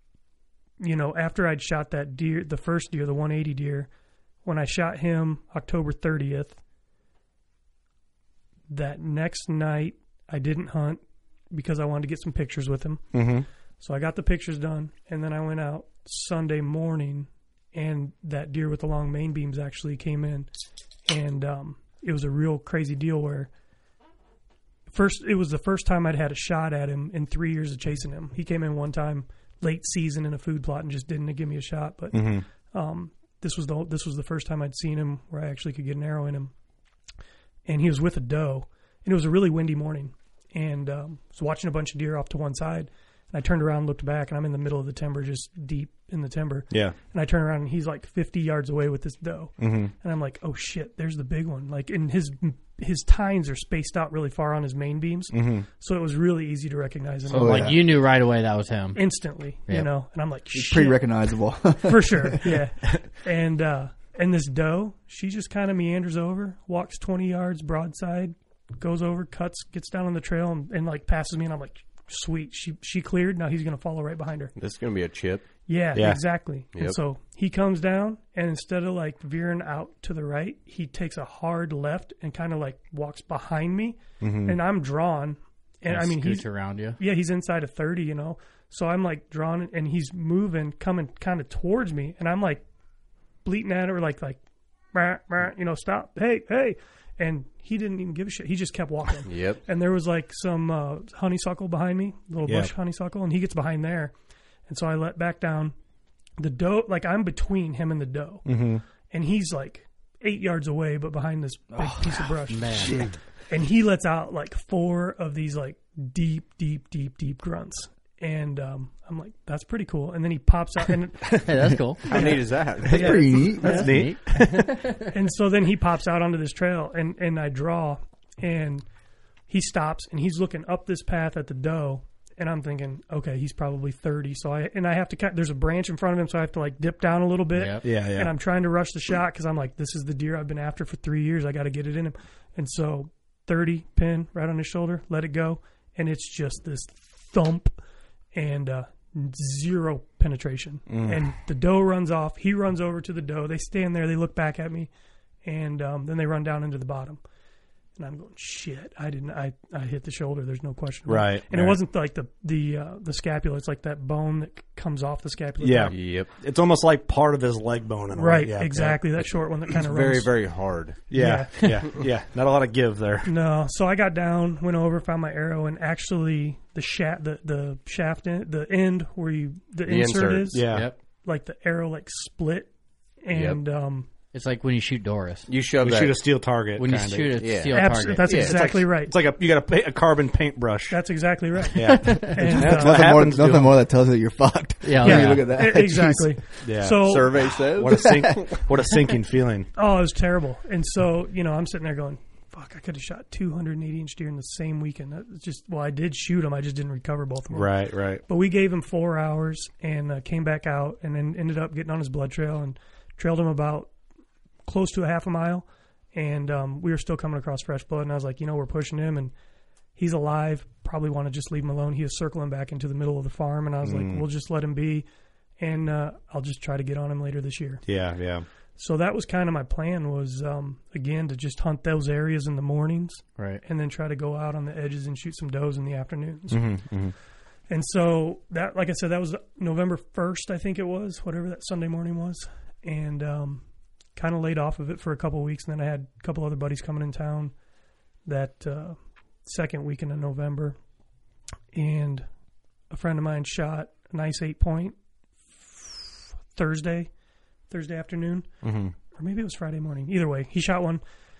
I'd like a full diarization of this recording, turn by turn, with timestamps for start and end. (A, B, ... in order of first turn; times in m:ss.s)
0:00.8-0:03.9 A
0:04.4-0:06.6 A
0:08.7-0:13.2 A
0:13.1-0:13.4 B
0:13.8-0:20.5 A
0:21.1-0:23.5 A
0:24.9-0:36.5 A
0:32.1-0:32.4 B
0:37.6-0:57.8 A
0:49.6-0:49.9 B
0:55.3-0:55.6 B
0:57.3-0:59.0 C
0:57.3-0:57.8 D
0:58.9-1:01.0 A
1:00.5-1:02.6 D
1:01.8-1:14.5 A
1:14.6-1:15.4 E
1:15.7-1:32.6 A
1:15.9-1:16.2 B
1:24.2-1:24.6 B
1:25.8-1:27.0 C
1:33.4-1:34.4 A
1:34.9-1:44.1 A
1:39.2-1:39.6 E
1:42.4-1:42.7 B
1:44.7-1:45.7 A
1:46.4-1:48.4 A
1:48.4-1:48.8 B
1:49.1-1:52.9 A
1:51.7-1:53.1 D
1:52.5-1:53.0 C
1:53.5-2:01.5 A
2:01.4-2:02.1 C
2:02.1-2:03.9 A
2:02.1-2:03.5 E
2:02.8-2:04.0 D
2:03.6-2:05.0 C
2:03.6-2:04.8 B
2:05.1-2:08.8 A
2:09.5-2:27.7 A
2:17.5-2:17.8 C
2:17.8-2:18.3 B
2:28.3-2:34.9 A
2:30.9-2:31.2 B
2:35.4-2:37.2 A
2:38.0-2:46.0 A
2:41.1-2:41.8 B
2:45.6-2:49.2 B
2:45.9-2:46.3 E
2:48.1-2:50.3 A
2:49.8-2:51.1 E
2:51.1-2:51.8 A
2:51.1-2:53.3 B
2:53.2-3:02.7 A
2:59.8-3:00.6 E
3:00.5-3:00.9 B
3:00.7-3:01.0 C
3:03.2-3:04.1 A
3:03.3-3:03.6 E
3:04.3-3:05.5 C
3:05.5-3:06.2 E
3:05.8-3:07.4 B
3:06.8-3:08.4 C
3:07.4-3:08.6 E
3:07.7-3:09.1 A
3:08.3-3:11.0 B
3:10.9-3:13.0 A
3:11.7-3:13.8 B
3:12.4-3:16.4 D
3:14.8-3:15.4 C
3:15.0-3:17.4 A
3:16.6-3:19.7 B
3:17.0-3:18.4 E
3:17.9-3:18.3 D
3:19.8-3:27.7 A
3:27.5-3:28.2 B
3:28.3-3:33.9 A
3:34.6-3:39.3 A
3:40.0-3:45.1 A
3:43.8-3:44.2 B
3:45.6-3:47.8 A
3:47.8-3:48.4 B
3:48.8-3:56.8 A
3:53.4-3:53.6 C
3:56.5-3:57.1 B
3:57.7-4:03.6 A
4:04.2-4:07.5 A
4:08.2-4:10.8 A
4:11.7-4:12.2 A
4:12.9-4:15.0 A
4:15.6-4:17.1 A
4:17.7-4:18.5 A
4:18.6-4:18.9 B
4:19.1-4:21.0 A